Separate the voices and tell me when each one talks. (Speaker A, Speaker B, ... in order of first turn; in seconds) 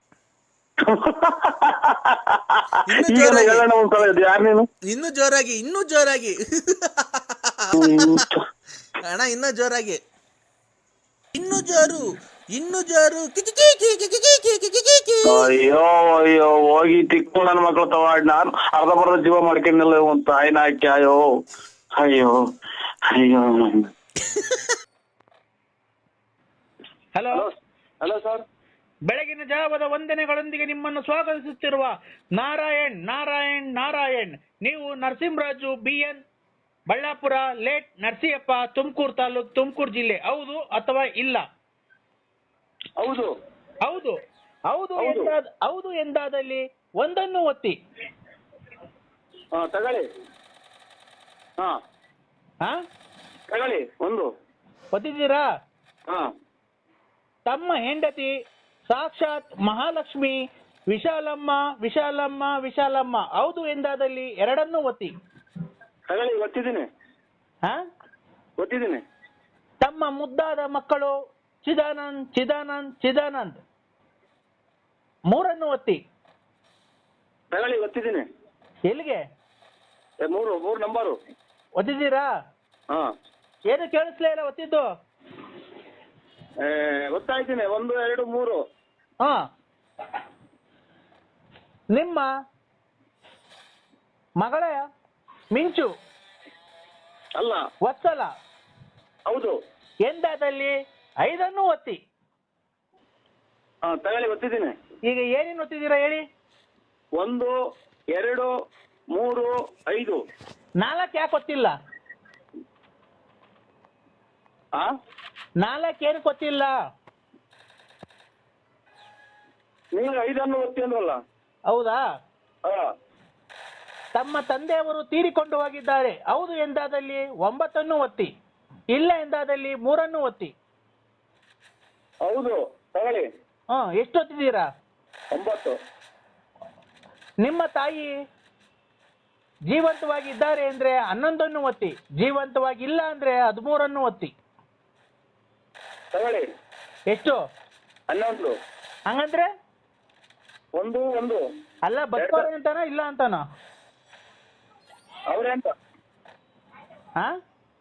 Speaker A: 0.8-4.7, 7.8-8.3, 15.3-21.2, 22.0-22.4, 23.1-23.8, 28.0-28.4, 43.0-43.3, 45.0-45.3, 49.5-50.0, 53.5-54.3, 66.1-66.8, 68.6-69.0, 77.5-78.2, 80.2-81.1, 86.6-88.6, 97.3-97.6, 99.3-99.5, 103.8-104.7, 107.2-107.5, 108.1-108.5, 109.1-110.2, 119.9-121.2, 132.2-133.2, 135.3-135.7, 146.1-146.4, 148.1-148.5, 150.7-151.4, 152.2-152.5, 155.3-155.7
Speaker B: 2.9-3.6, 4.9-8.2, 9.0-10.0, 11.3-15.5, 24.3-24.7
Speaker C: 27.1-27.4, 29.1-36.2, 36.9-41.4, 43.8-47.8, 54.9-55.4, 57.5-58.3, 58.9-60.3, 60.9-65.1, 69.8-71.1, 71.6-73.6, 75.3-76.0, 78.9-79.2, 81.8-82.3, 83.7-84.8, 91.9-92.3, 94.4-94.8, 95.5-95.9, 97.8-98.3, 100.0-102.0, 105.1-106.2, 110.8-111.7, 115.6-116.7, 121.7-122.0, 124.1-128.3, 128.9-130.5, 133.7-134.7, 137.4-138.1, 139.7-144.3, 147.1-147.4, 149.1-149.5, 151.8-153.4